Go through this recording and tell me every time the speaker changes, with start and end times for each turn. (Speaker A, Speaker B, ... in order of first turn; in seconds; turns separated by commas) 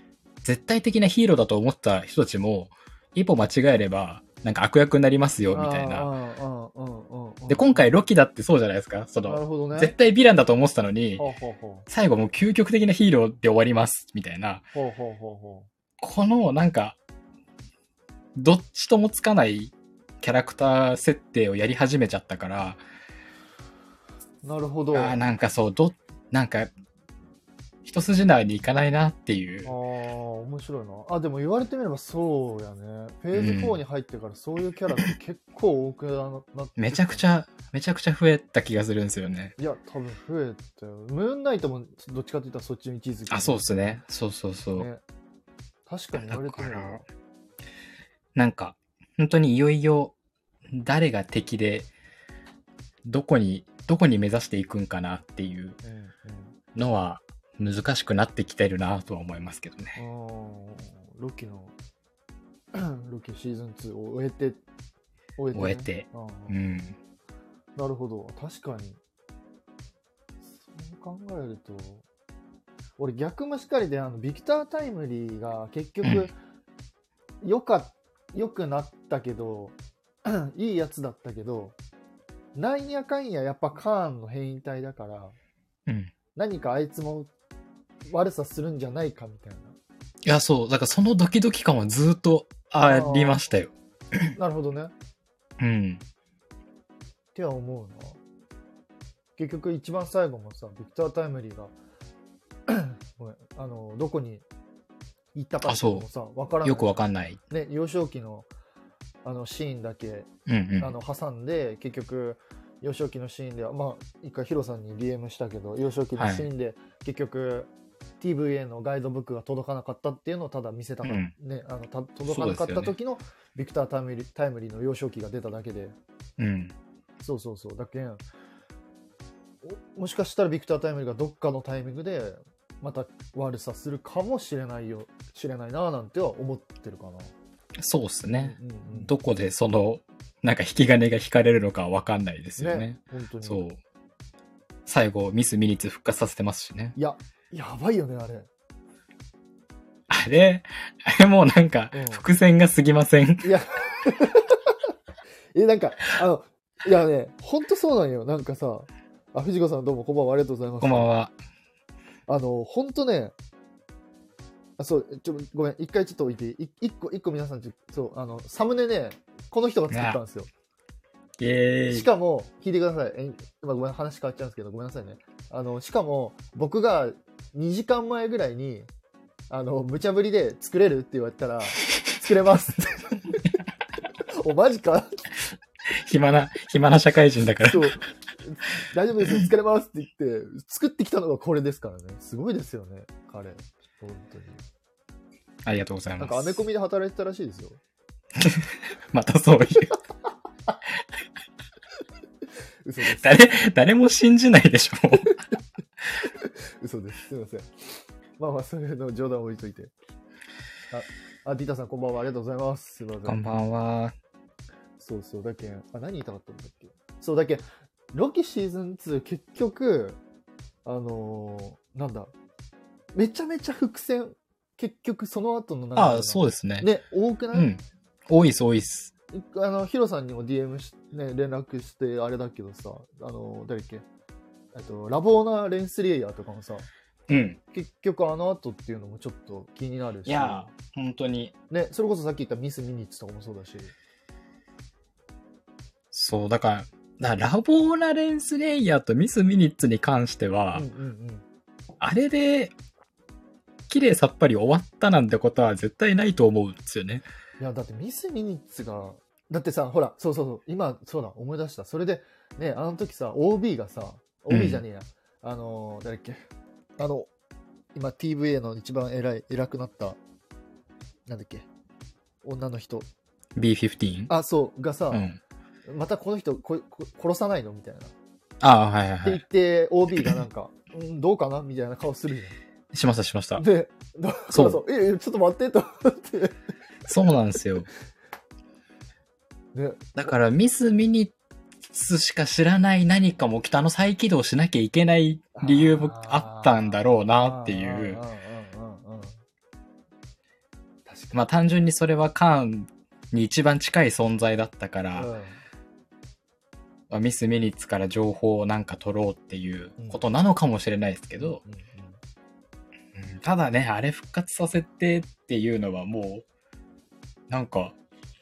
Speaker A: 0.4-6.1, Speaker B: 5.5-7.9, Speaker A: 7.5-11.2, Speaker B: 9.2-9.9, Speaker B: 11.2-11.9, Speaker A: 11.9-14.7, Speaker B: 14.7-15.7, Speaker A: 16.0-17.0, Speaker A: 18.4-22.8, Speaker B: 24.4-25.2, Speaker A: 24.9-26.7, Speaker A: 27.8-29.7, Speaker B: 29.6-37.2, Speaker A: 33.3-33.8, Speaker A: 36.8-39.5, Speaker B: 39.6-43.8, Speaker A: 43.3-44.9, Speaker B: 45.9-47.0, Speaker A: 46.1-47.0, Speaker A: 48.4-50.1, Speaker A: 50.7-51.9, Speaker A: 53.0-55.8, Speaker B: 55.8-56.6, Speaker A: 56.8-60.0, Speaker B: 60.0-61.7, Speaker B: 62.7-64.6, Speaker B: 65.4-66.6, Speaker A: 65.5-67.0, Speaker B: 67.8-69.0, Speaker B: 70.5-72.0, Speaker B: 73.0-76.3, Speaker A: 76.0-76.3, Speaker B: 77.4-81.8, Speaker B: 82.5-85.4, Speaker A: 85.9-86.1, Speaker B: 86.3-87.3, Speaker B: 88.1-89.8, Speaker A: 90.2-94.3, Speaker B: 92.8-93.4, Speaker B: 94.3-94.9, Speaker A: 95.6-96.0, Speaker B: 97.3-98.2, Speaker B: 99.4-101.7, Speaker B: 102.7-104.5, Speaker B: 105.3-108.5, Speaker A: 105.7-106.1, Speaker A: 106.6-107.4, Speaker B: 109.2-110.3, Speaker A: 110.5-110.9, Speaker B: 110.8-126.0, Speaker A: 116.2-116.5, Speaker A: 121.0-121.3, Speaker A: 122.2-122.9, Speaker A: 126.4-126.7, Speaker B: 127.2-128.2, Speaker B: 129.6-137.3, Speaker A: 137.8-143.8, Speaker B: 138.3-139.1, Speaker B: 142.6-143.6, Speaker A: 144.9-147.0, Speaker B: 147.0-148.5, Speaker A: 150.1-153.5, Speaker B: 151.9-152.2, Speaker B: 153.4-154.8, Speaker B: 155.5-161.1, Speaker A: 160.8-161.4, Speaker B: 162.3-163.3, Speaker B: 164.8-170.5, Speaker A: 169.9-170.2, Speaker A: 171.4-172.1, Speaker B: 171.9-178.9, Speaker B: 179.5-183.6, Speaker B: 184.3-185.2, Speaker A: 185.9-188.0, Speaker B: 187.6-194.6, Speaker A: 195.7-196.6, Speaker B: 196.2-197.8, Speaker A: 198.4-200.0, Speaker B: 202.8-203.4, Speaker A: 203.1-205.4, Speaker B: 205.2-205.6, Speaker B: 206.2-209.9, Speaker B: 210.9-213.4, Speaker A: 213.2-214.2, Speaker B: 215.0-220.2, Speaker B: 220.8-222.3, Speaker B: 223.2-227.7, Speaker A: 225.9-226.9, Speaker A: 227.5-229.1, Speaker B: 229.3-234.1, Speaker B: 234.7-236.9, Speaker A: 237.3-237.6, Speaker B: 237.7-240.7, Speaker A: 240.2-241.5, Speaker B: 241.7-243.9, Speaker A: 246.1-250.9, Speaker B: 250.7-251.4, Speaker A: 252.0-252.7, Speaker A: 253.9-257.2, Speaker B: 257.6-266.4, Speaker A: 264.5-264.8, Speaker B: 267.0-267.3, Speaker B: 267.9-270.2, Speaker B: 271.3-271.7, Speaker B: 272.4-273.1, Speaker A: 273.6-274.3, Speaker B: 274.3-275.3, Speaker A: 275.1-275.4, Speaker B: 275.9-278.1, Speaker A: 278.6-279.4, Speaker B: 279.2-282.6, Speaker A: 282.9-283.6, Speaker B: 283.6-286.6, Speaker A: 284.5-284.8, Speaker A: 287.1-287.9, Speaker B: 289.8-290.2, Speaker A: 290.2-291.3, Speaker A: 291.9-298.2, Speaker B: 295.6-299.4, Speaker B: 301.1-301.4, Speaker A: 301.3-305.3, Speaker B: 305.2-305.6, Speaker A: 307.1-311.6, Speaker B: 311.4-312.2, Speaker A: 313.1-316.4, Speaker A: 317.5-317.9